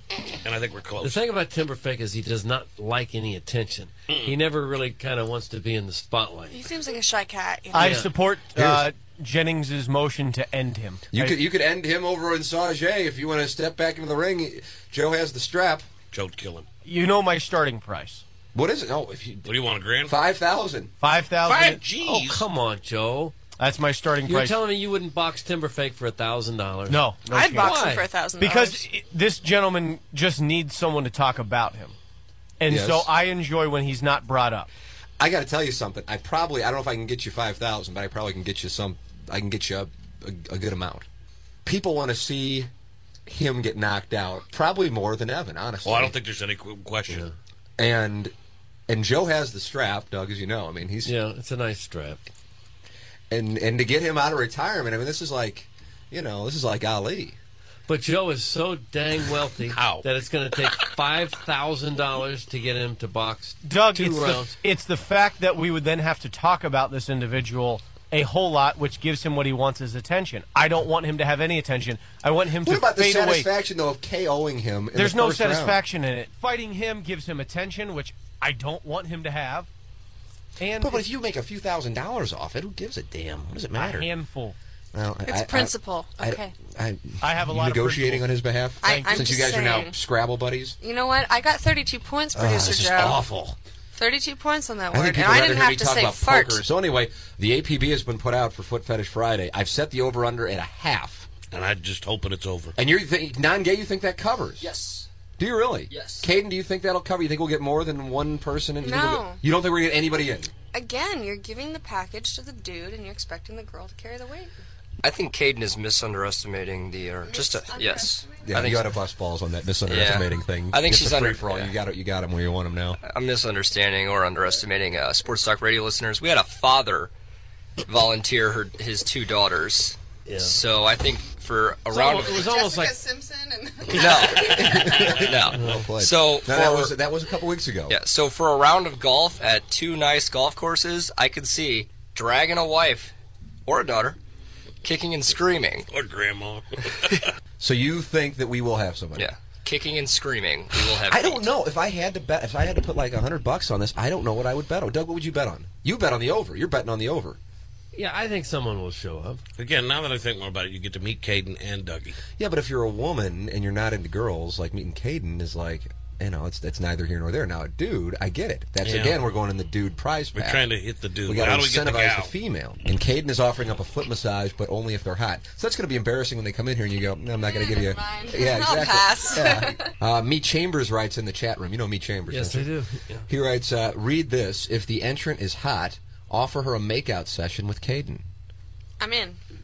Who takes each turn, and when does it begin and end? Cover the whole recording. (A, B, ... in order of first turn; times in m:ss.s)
0:00.4-0:01.2 A
0:01.0-0:06.6 B
0:06.5-0:08.1 C
0:07.7-0:11.4 D
0:07.8-0:08.1 B
0:08.5-0:08.9 E
0:11.1-0:15.9 E
0:16.1-0:16.6 A
0:16.8-0:18.2 D
0:18.5-0:19.5 E
0:19.4-0:20.2 A
0:20.0-0:20.9 E
0:21.0-0:21.8 D
0:21.4-0:22.4 A
0:22.0-0:23.4 B
0:23.6-0:24.6 D
0:24.2-0:28.0 B
0:26.9-0:27.8 D
0:27.3-0:28.8 C
0:28.4-0:32.0 D
0:32.6-0:34.7 D
0:32.7-0:33.1 E
0:35.2-0:41.0 E
0:41.6-0:42.7 E
0:43.3-0:46.1 E
0:45.8-0:47.3 A
0:47.1-0:47.3 B
0:47.8-0:48.3 E
0:48.9-0:51.1 E
0:51.0-0:52.2 B
0:53.3-0:57.4 E
0:57.9-1:04.5 B
0:59.7-1:00.0 A
1:03.6-1:13.5 D
1:12.6-1:15.8 E
1:14.9-1:19.7 D
1:20.6-1:21.0 D
1:20.8-1:24.1 E
1:23.8-1:24.6 D
1:24.9-1:30.8 E
1:25.2-1:26.5 C
1:27.2-1:28.3 D
1:28.8-1:30.0 C
1:28.8-1:29.4 D
1:30.8-1:33.2 C
1:32.3-1:33.6 E
1:33.9-1:36.6 C
1:34.9-1:41.3 E
1:41.5-1:42.8 A
1:42.8-1:44.7 E
1:44.6-1:45.0 F
1:45.4-1:50.5 E
1:45.9-1:46.3 F
1:48.8-1:49.4 C
1:50.7-1:54.5 C
1:55.0-1:58.9 F
1:57.2-1:58.7 C
1:58.4-2:03.0 E
1:59.9-2:01.7 F
2:03.0-2:07.1 F
2:07.8-2:12.5 F
2:10.2-2:10.6 B
2:11.9-2:13.0 B
2:12.1-2:15.1 C
2:13.9-2:14.5 F
2:14.3-2:18.0 E
2:15.0-2:15.3 A
2:15.2-2:17.0 F
2:15.5-2:15.8 B
2:17.9-2:23.1 F
2:23.6-2:24.2 F
2:24.8-2:25.9 F
2:25.9-2:27.3 A
2:27.6-2:29.3 E
2:29.2-2:31.5 F
2:31.1-2:37.4 E
2:37.9-2:39.4 B
2:39.6-2:42.2 A
2:42.4-2:50.6 E
2:48.8-2:49.2 A
2:50.4-2:52.3 A
2:51.2-3:02.7 E
2:57.4-2:59.9 C
3:02.3-3:03.3 B
3:03.3-3:08.3 E
3:09.0-3:09.4 C